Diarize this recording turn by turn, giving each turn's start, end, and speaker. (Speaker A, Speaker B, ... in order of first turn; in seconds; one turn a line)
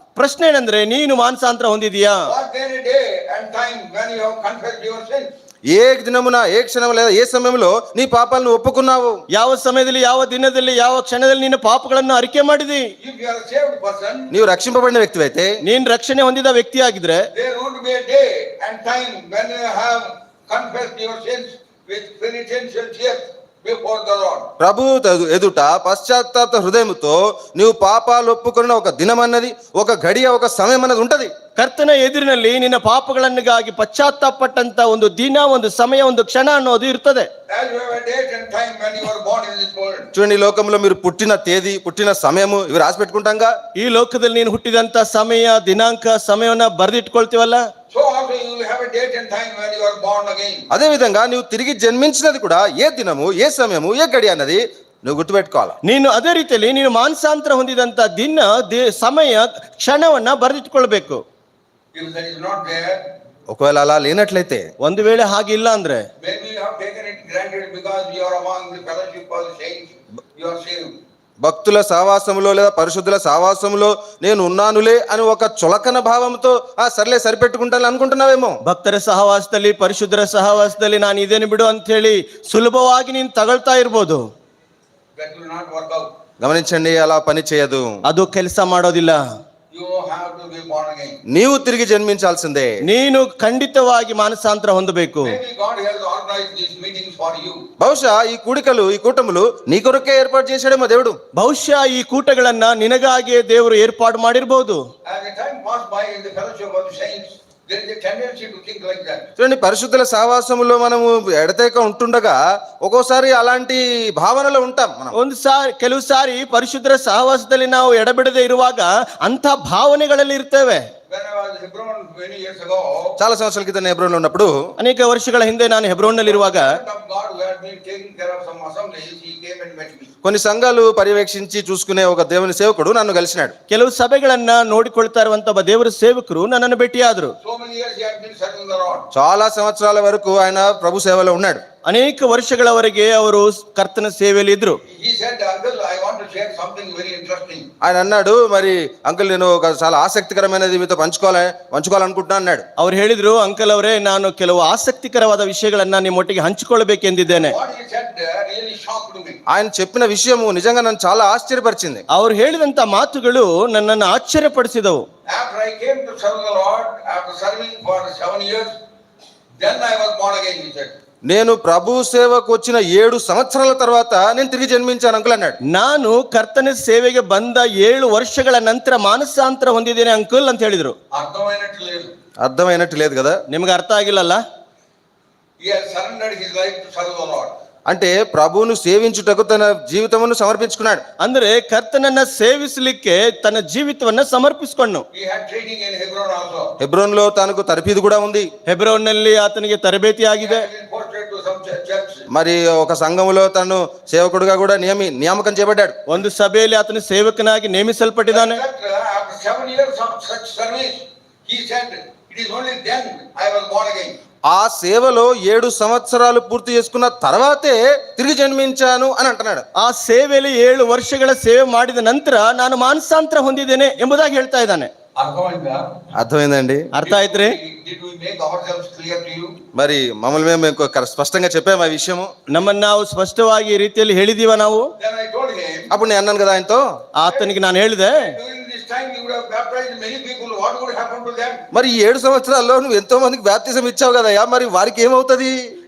Speaker A: 0.1-2.2
Speaker B: 2.2-5.3
Speaker C: 5.7-9.2
Speaker A: 9.3-12.9
Speaker B: 13.0-14.3
Speaker C: 14.3-15.6
Speaker A: 15.6-17.3
Speaker B: 17.3-24.5
Speaker C: 24.6-31.3
Speaker A: 31.6-37.3
Speaker B: 37.5-40.1
Speaker C: 40.1-43.5
Speaker A: 43.8-47.6
Speaker B: 47.9-50.6
Speaker C: 50.7-55.8
Speaker A: 55.8-61.2
Speaker B: 61.9-63.0
Speaker C: 63.5-64.6
Speaker A: 64.8-66.0
Speaker B: 66.2-70.9
Speaker C: 71.4-78.5
Speaker A: 78.6-84.2
Speaker B: 85.2-86.1
Speaker C: 86.4-87.9
Speaker A: 88.1-89.2
Speaker B: 89.7-91.2
Speaker C: 91.3-92.7
Speaker A: 92.8-95.4
Speaker B: 95.2-97.6
Speaker C: 97.8-101.2
Speaker A: 101.3-104.8
Speaker B: 105.0-109.3
Speaker C: 109.4-115.2
Speaker A: 115.1-120.8
Speaker B: 121.1-123.2
Speaker C: 123.2-124.5
Speaker A: 124.8-126.7
Speaker B: 126.2-130.1
Speaker C: 130.2-133.5
Speaker A: 133.7-137.3
Speaker B: 137.4-139.1
Speaker C: 139.1-141.6
Speaker A: 141.8-144.8
Speaker B: 144.9-147.7
Speaker C: 147.8-152.6
Speaker A: 152.8-157.6
Speaker B: 157.3-159.4
Speaker C: 159.5-162.0
Speaker A: 162.1-165.0
Speaker B: 165.3-168.7
Speaker B: 169.6-170.9
Speaker C: 171.3-175.6
Speaker A: 175.7-180.9
Speaker B: 181.1-182.1
Speaker C: 182.4-183.4
Speaker A: 183.5-184.4
Speaker B: 185.6-187.5
Speaker C: 187.9-191.0
Speaker A: 191.2-195.0
Speaker B: 195.1-196.7
Speaker C: 196.8-198.5
Speaker A: 198.7-200.7
Speaker B: 200.4-202.2
Speaker C: 202.3-206.0
Speaker A: 206.1-208.6
Speaker B: 208.3-214.2
Speaker C: 214.5-219.6
Speaker A: 219.8-224.9
Speaker B: 225.2-226.1
Speaker C: 226.1-226.9
Speaker A: 226.9-227.5
Speaker B: 227.0-229.6
Speaker C: 229.7-232.3
Speaker A: 232.5-234.9
Speaker B: 235.0-235.9
Speaker C: 235.9-236.8
Speaker A: 237.2-238.3
Speaker B: 237.2-241.6
Speaker C: 241.7-245.5